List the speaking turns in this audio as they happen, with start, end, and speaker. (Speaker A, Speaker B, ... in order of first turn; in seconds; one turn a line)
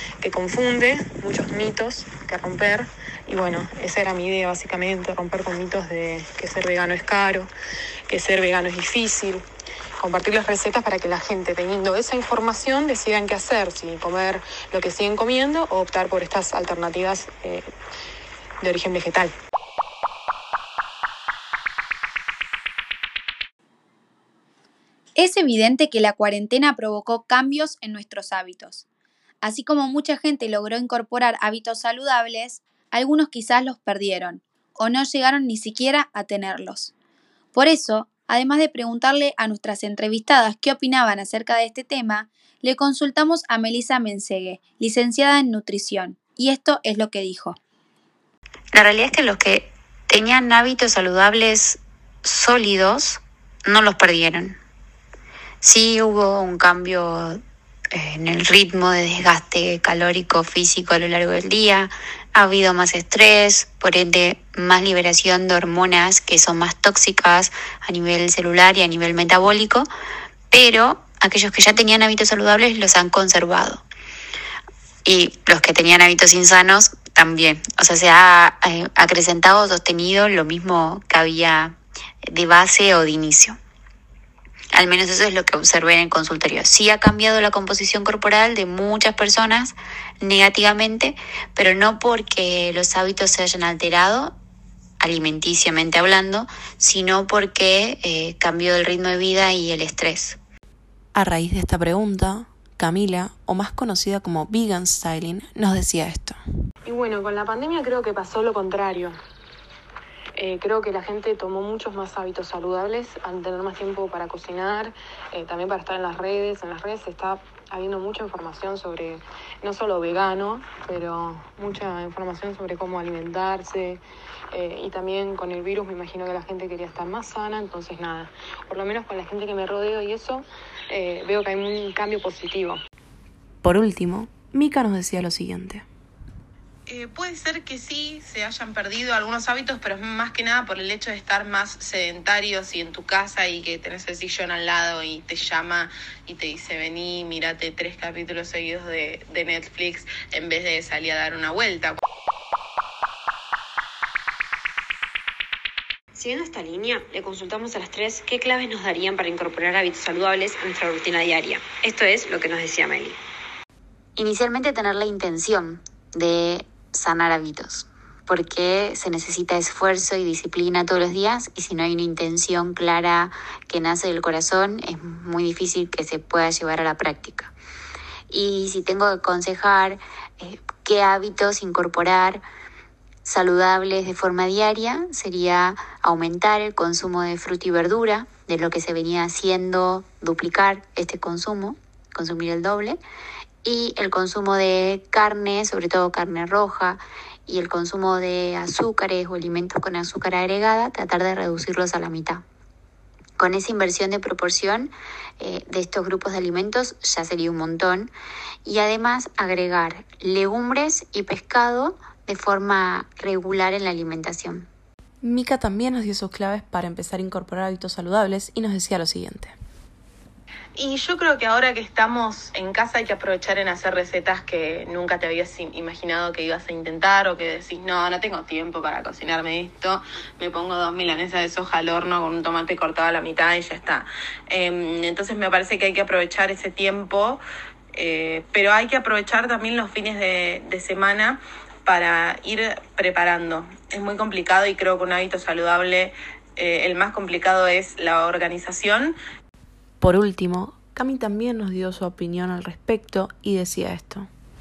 Speaker A: 0.2-7.5
Speaker A: 8.1-9.4
Speaker A: 10.0-17.7
Speaker A: 18.6-19.3
Speaker B: 25.2-28.8
Speaker B: 29.4-36.9
Speaker B: 37.5-47.6
Speaker C: 48.7-54.6
Speaker C: 55.6-57.4
Speaker C: 57.9-69.9
Speaker C: 70.5-73.8
Speaker C: 75.0-83.6
Speaker C: 84.7-94.3
Speaker C: 95.0-100.4
Speaker D: 101.1-106.4
Speaker A: 106.8-109.2
Speaker A: 110.4-132.8
Speaker D: 133.6-135.8
Speaker E: 136.9-152.0
Speaker F: 156.2-163.2
Speaker C: 164.2-177.5
Speaker C: 178.3-182.4
Speaker C: 183.2-193.0
Speaker C: 193.6-202.4
Speaker C: 203.4-208.1
Speaker C: 208.6-214.7
Speaker D: 215.2-219.6
Speaker E: 220.8-237.4
Speaker E: 237.9-249.1
Speaker D: 250.0-254.3